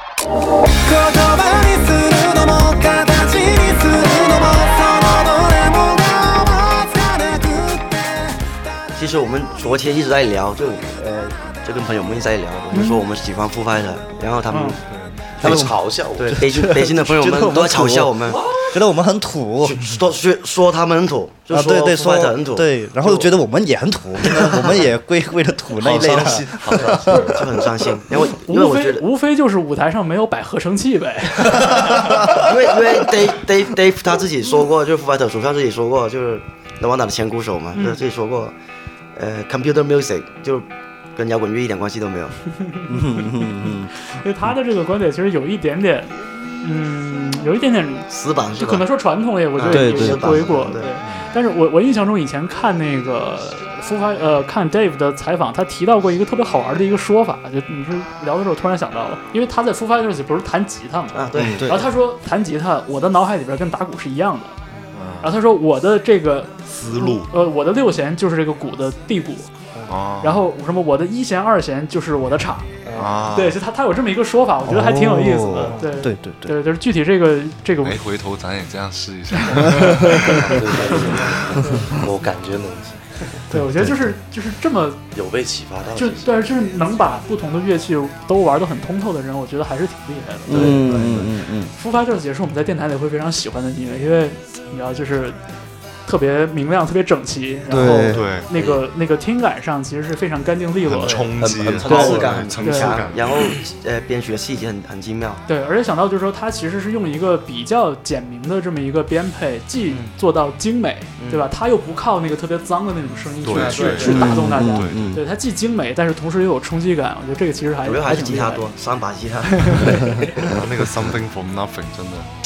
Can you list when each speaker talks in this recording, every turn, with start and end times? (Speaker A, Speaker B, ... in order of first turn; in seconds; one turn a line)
Speaker A: 0.8-7.9
Speaker B: 8.9-14.8
Speaker C: 12.7-13.1
Speaker C: 14.5-14.8
Speaker D: 14.9-15.4
Speaker B: 15.3-18.5
Speaker E: 15.4-16.6
Speaker F: 15.4-15.7
Speaker F: 16.4-18.1
Speaker F: 18.7-19.8
Speaker B: 19.6-23.3
Speaker F: 21.5-27.4
Speaker B: 24.2-24.8
Speaker B: 25.8-29.1
Speaker D: 25.9-27.4
Speaker C: 28.1-32.3
Speaker B: 32.3-38.5
Speaker C: 37.7-38.0
Speaker B: 39.1-42.4
Speaker C: 42.6-64.6
Speaker F: 42.9-43.9
Speaker B: 48.1-48.9
Speaker B: 49.5-51.0
Speaker F: 49.7-50.6
Speaker B: 61.1-61.8
Speaker F: 61.5-61.9
Speaker D: 64.9-65.4
Speaker C: 65.2-69.5
Speaker D: 66.7-67.3
Speaker D: 69.9-70.5
Speaker C: 70.2-72.7
Speaker B: 72.8-73.2
Speaker D: 73.0-73.6
Speaker C: 73.3-78.0
Speaker F: 74.7-76.5
Speaker B: 75.5-75.9
Speaker D: 77.8-80.3
Speaker C: 79.4-80.4
Speaker B: 80.4-81.8
Speaker E: 80.6-83.1
Speaker C: 81.6-81.9
Speaker C: 83.4-85.0
Speaker F: 83.5-84.1
Speaker E: 85.1-86.5
Speaker C: 85.9-90.8
Speaker F: 90.5-91.7
Speaker E: 90.5-91.1
Speaker B: 90.6-91.2
Speaker C: 91.7-95.4
Speaker C: 96.0-101.2
Speaker F: 97.7-98.3
Speaker D: 98.1-98.5
Speaker B: 98.5-98.8
Speaker D: 100.9-103.6
Speaker B: 101.0-105.4
Speaker E: 101.4-102.6
Speaker C: 102.6-103.0
Speaker C: 105.5-118.7
Speaker B: 111.2-111.5
Speaker D: 113.4-115.1
Speaker B: 113.6-114.2
Speaker F: 114.1-115.2
Speaker B: 117.8-120.5
Speaker C: 119.5-120.1
Speaker D: 120.4-122.3